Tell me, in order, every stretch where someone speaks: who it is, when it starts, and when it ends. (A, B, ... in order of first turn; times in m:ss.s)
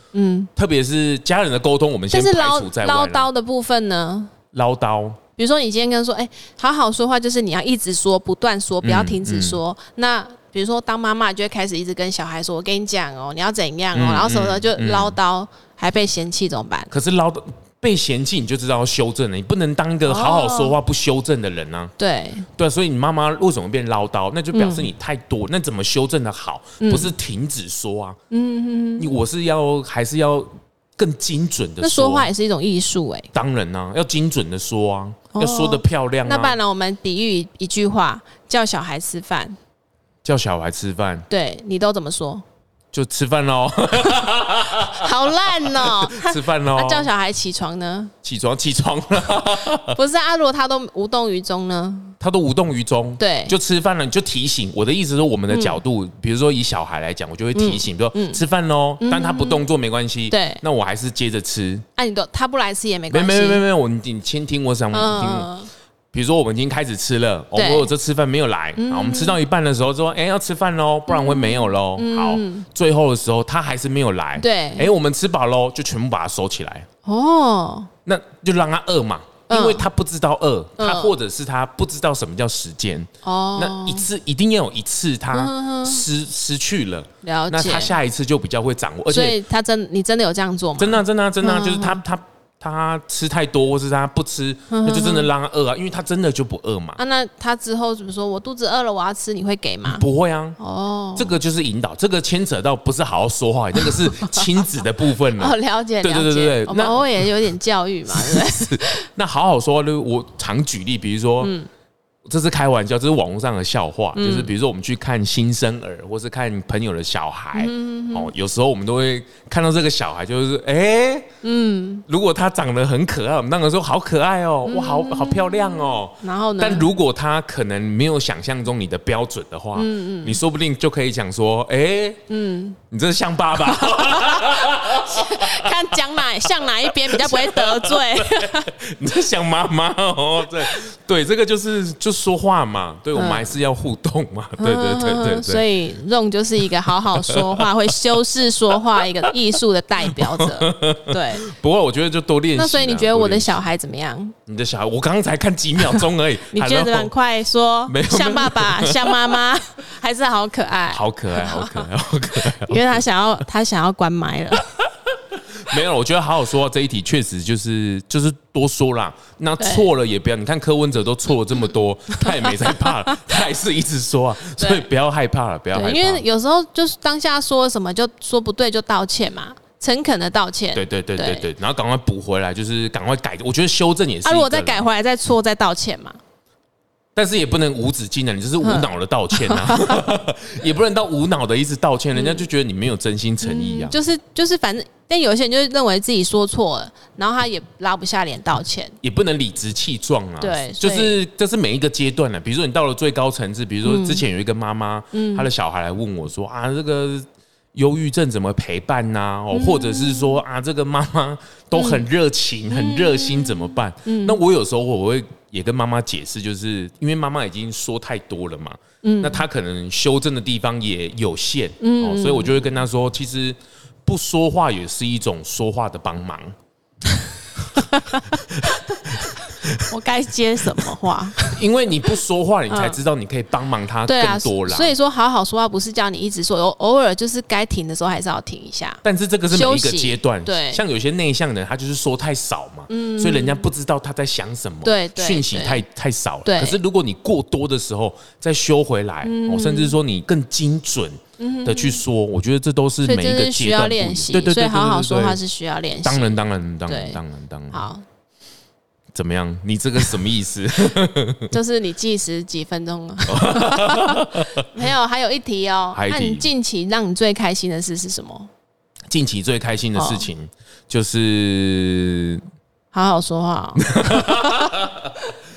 0:00.1-0:00.5 A
0:00.6-0:03.3 B
0:02.1-0:04.3 A
0:04.5-0:05.2 B
0:05.4-0:16.9 A
0:08.8-0:09.6 B
0:13.9-0:15.2 B
0:16.9-0:21.9 B
0:20.0-0:20.8 A
0:22.0-0:22.5 A
0:22.6-0:28.2 B
0:24.5-0:24.9 A
0:26.8-0:27.1 A
0:28.3-0:29.1 A
0:29.0-0:32.3 B
0:31.8-0:33.3 A
0:33.3-0:36.6 B
0:35.3-0:39.6 A
0:40.2-0:41.3 B
0:41.3-0:42.4 A
0:42.9-0:47.1 B
0:44.7-0:48.1 A
0:48.2-0:50.0 B
0:49.8-0:52.2 A
0:52.2-1:01.8 B
0:53.2-0:53.6 A
0:55.5-0:55.8 A
0:57.5-0:58.4 A
0:59.0-0:59.6 A
1:00.3-1:00.6 A
1:02.0-1:03.6 A
1:03.1-1:05.5 B
1:04.9-1:05.7 A
1:06.1-1:16.9 B
1:07.5-1:07.9 A
1:08.8-1:09.4 A
1:11.1-1:12.6 A
1:14.4-1:14.9 A
1:17.0-1:17.9 A
1:18.0-1:29.4 B
1:19.5-1:19.9 A
1:20.8-1:21.1 A
1:23.2-1:24.1 A
1:25.3-1:26.0 A
1:27.2-1:28.0 A
1:29.1-1:32.0 A
1:30.8-1:37.0 B
1:34.7-1:35.3 A
1:37.0-1:40.0 A
1:39.8-1:40.6 B
1:40.6-1:41.4 A
1:41.2-1:47.3 B
1:43.8-1:44.4 A
1:45.3-1:49.1 A
1:48.1-1:51.5 B
1:51.4-1:51.7 A
1:52.2-2:01.3 B
1:54.2-1:54.5 A
1:57.5-1:58.3 A
2:01.4-2:02.0 A
2:02.1-2:12.2 B
2:04.6-2:06.9 A
2:09.7-2:10.4 A
2:12.3-2:12.8 A
2:12.9-2:15.9 B
2:13.6-2:18.7 A
2:16.6-2:25.6 B
2:23.1-2:23.5 A
2:24.6-2:31.5 A
2:27.1-2:27.9 B
2:29.0-2:29.3 B
2:30.0-2:33.6 B
2:32.6-2:34.4 A
2:34.5-2:37.1 B
2:35.8-2:44.7 A
2:37.9-2:39.4 B
2:40.9-2:43.0 B
2:45.3-2:56.2 B
2:49.6-2:49.9 A
2:52.1-2:53.4 A
2:54.6-2:54.9 A
2:55.7-3:01.5 A
3:00.7-3:04.8 B
3:04.2-3:06.2 A
3:07.2-3:14.0 B
3:08.6-3:10.1 A
3:12.1-3:12.5 A
3:13.4-3:19.0 A
3:19.0-3:46.5 B
3:20.4-3:21.2 A
3:23.8-3:24.2 A
3:25.1-3:25.5 A
3:29.5-3:30.4 A
3:31.7-3:32.0 A
3:32.7-3:34.4 A
3:39.0-3:39.4 A
3:41.8-3:42.8 A
3:47.7-3:51.6 A
3:48.6-3:49.9 B
3:51.4-3:54.9 B
3:52.7-3:53.0 A
3:54.0-4:00.8 A
3:59.0-4:15.4 B
4:02.9-4:03.7 A
4:04.8-4:05.8 A
4:06.4-4:06.8 A
4:09.2-4:09.9 A
4:11.4-4:12.0 A
4:13.0-4:17.2 A
4:16.0-4:17.8 B
4:17.7-4:18.0 A
4:19.1-4:21.5 B
4:21.5-4:28.5 A
4:23.3-4:24.6 B
4:25.9-4:26.5 B
4:29.1-4:32.4 B
4:29.9-4:30.3 A
4:32.9-4:34.8 A
4:33.8-4:35.2 B